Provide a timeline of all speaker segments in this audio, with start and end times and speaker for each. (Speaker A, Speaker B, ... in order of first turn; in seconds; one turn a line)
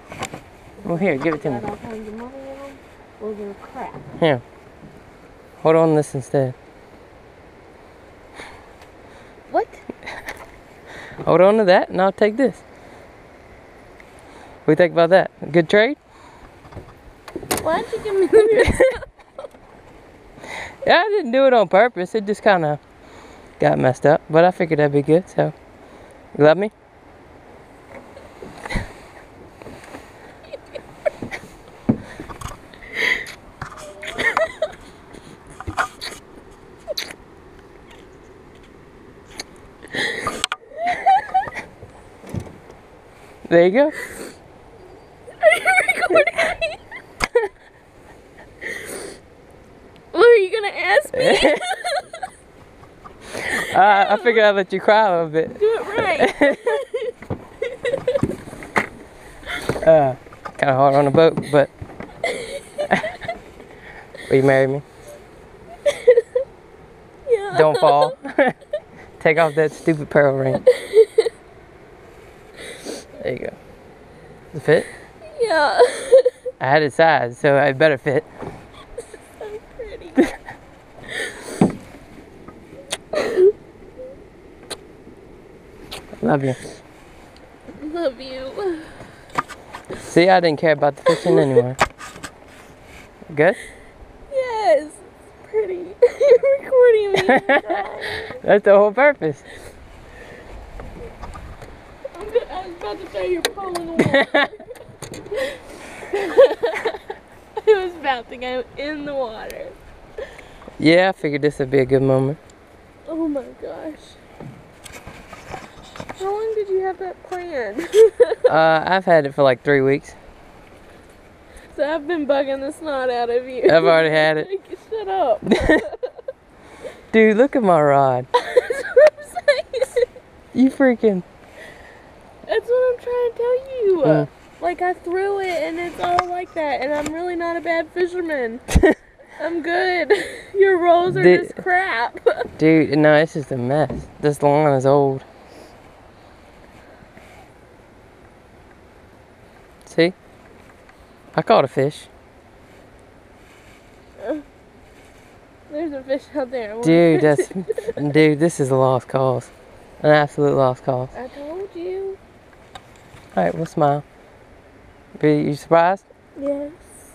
Speaker A: 0.8-4.1
Speaker B: 0.8-1.7
Speaker B: 5.6-6.5
Speaker A: 9.5-9.8
Speaker B: 11.2-12.6
Speaker B: 14.6-16.0
Speaker A: 17.6-19.0
Speaker B: 20.8-22.8
Speaker B: 23.6-25.5
Speaker B: 26.3-26.7
Speaker B: 43.5-43.9
Speaker A: 45.4-46.8
Speaker A: 50.1-52.2
Speaker B: 51.1-51.6
Speaker B: 53.3-56.8
Speaker A: 53.7-54.4
Speaker A: 55.6-57.1
Speaker A: 57.7-58.2
Speaker B: 59.8-61.7
Speaker A: 62.2-62.8
Speaker B: 62.9-63.2
Speaker B: 64.3-64.8
Speaker A: 65.8-66.2
Speaker A: 67.2-68.1
Speaker B: 67.5-68.5
Speaker B: 69.2-70.6
Speaker A: 70.6-71.3
Speaker B: 73.2-73.6
Speaker B: 74.5-74.9
Speaker A: 75.2-76.3
Speaker B: 76.6-78.3
Speaker A: 79.4-80.3
Speaker A: 83.1-83.5
Speaker B: 86.2-86.6
Speaker A: 87.8-89.0
Speaker B: 90.0-91.8
Speaker A: 91.1-91.6
Speaker B: 93.3-93.6
Speaker A: 94.3-98.4
Speaker B: 97.2-97.7
Speaker B: 98.3-99.4
Speaker A: 102.1-104.7
Speaker B: 104.0-104.5
Speaker A: 105.3-107.0
Speaker A: 107.6-109.8
Speaker B: 110.8-112.4
Speaker A: 113.1-114.2
Speaker A: 116.2-118.5
Speaker B: 118.5-120.2
Speaker A: 121.7-126.1
Speaker B: 123.7-124.5
Speaker B: 125.5-125.8
Speaker B: 127.1-128.3
Speaker A: 128.4-130.1
Speaker B: 130.5-131.2
Speaker A: 132.5-138.7
Speaker B: 134.0-134.3
Speaker A: 139.4-142.5
Speaker B: 141.1-141.6
Speaker B: 142.6-145.2
Speaker B: 149.8-150.1
Speaker B: 151.3-152.1
Speaker A: 155.7-158.0
Speaker B: 156.8-161.1
Speaker A: 161.1-162.2
Speaker B: 163.3-164.0
Speaker B: 165.2-166.0
Speaker A: 166.4-167.0